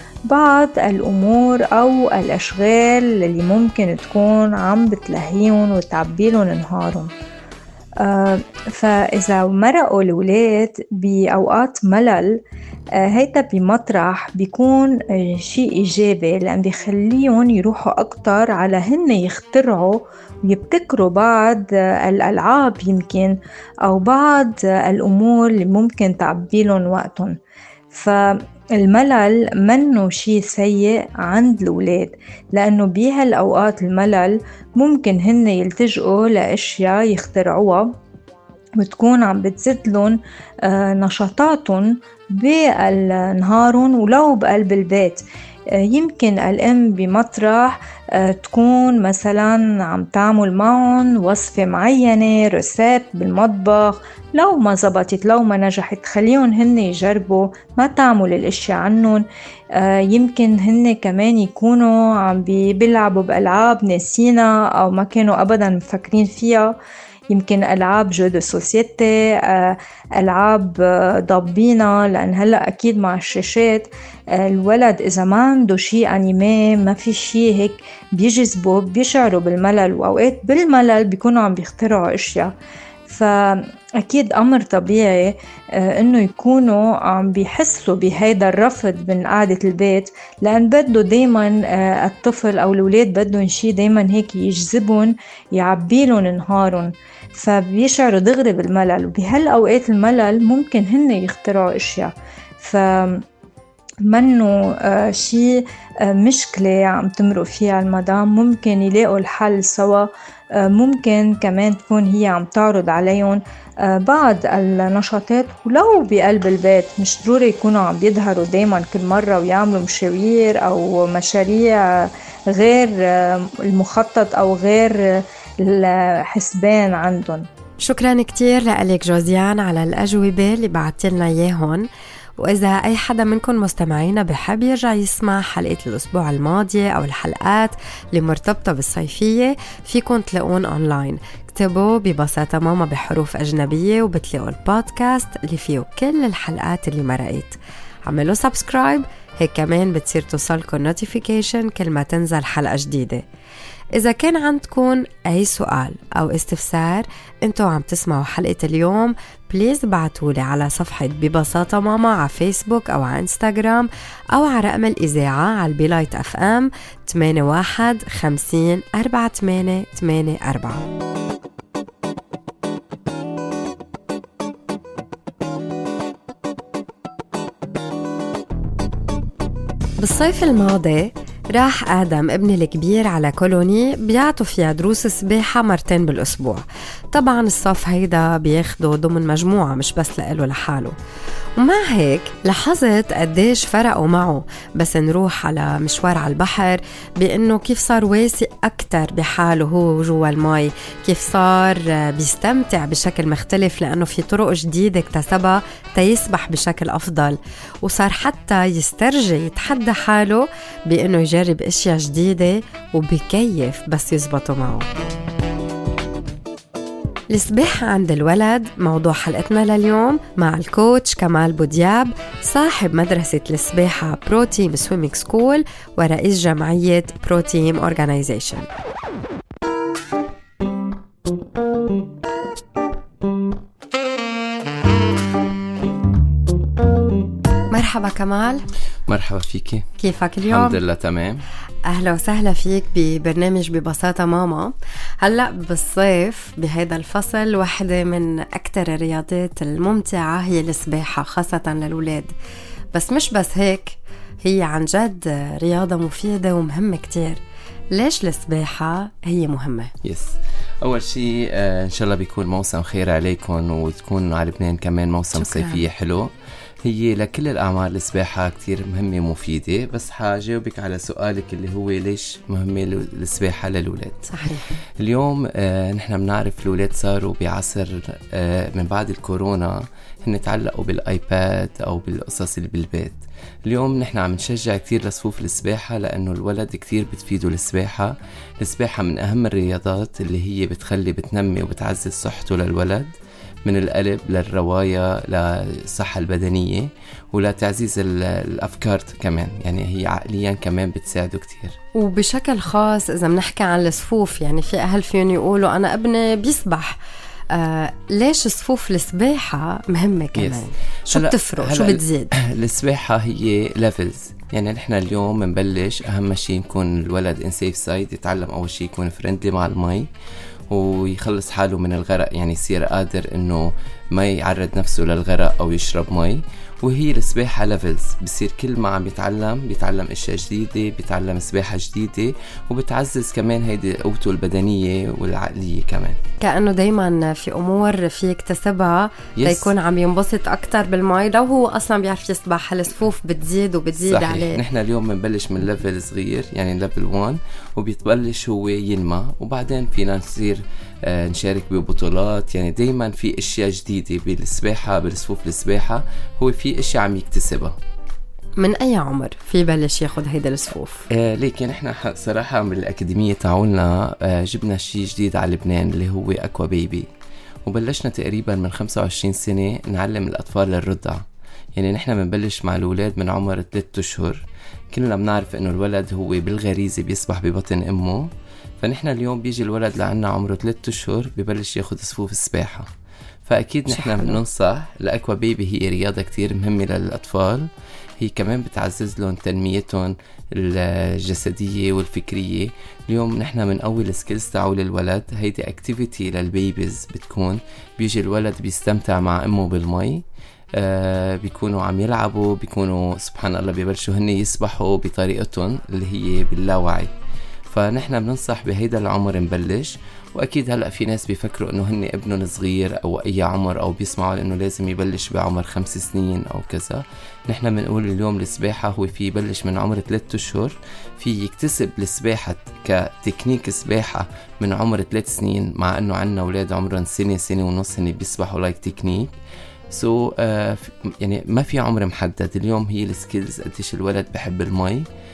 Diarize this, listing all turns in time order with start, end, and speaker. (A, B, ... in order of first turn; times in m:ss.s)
0:00.3-0:07.1 A
0:08.0-0:12.4 A
0:13.0-0:27.4 A
0:27.9-0:37.9 A
0:38.8-0:45.2 A
0:45.8-1:06.8 A
1:07.3-1:22.5 A
1:23.1-1:43.2 A
1:44.0-2:07.5 A
2:07.8-2:11.9 B
2:12.4-2:33.2 B
2:34.0-2:50.9 B
3:00.0-3:11.0 B
3:11.6-3:34.9 B
3:37.3-3:48.7 B
3:57.7-3:58.7 B
3:59.1-3:59.9 C
4:00.0-4:00.8 B
4:00.4-4:01.4 C
4:01.9-4:12.3 B
4:12.9-4:17.4 B
4:17.9-4:19.9 B
4:20.0-4:26.3 C
4:25.4-4:25.8 B
4:26.8-4:53.1 C
4:34.3-4:34.8 B
4:53.6-5:01.8 C
5:02.0-5:07.0 B
5:07.5-5:12.3 B
5:10.4-5:20.1 C
5:20.7-5:36.2 C
5:36.4-5:44.6 B
5:39.4-5:39.7 C
5:44.0-5:57.8 C
5:58.6-6:01.1 B
6:01.1-6:07.1 C
6:07.6-6:11.2 C
6:11.8-6:18.3 C
6:18.8-6:22.9 C
6:23.5-6:47.1 C
6:23.9-6:24.4 B
6:47.7-7:09.4 C
7:09.9-7:15.0 C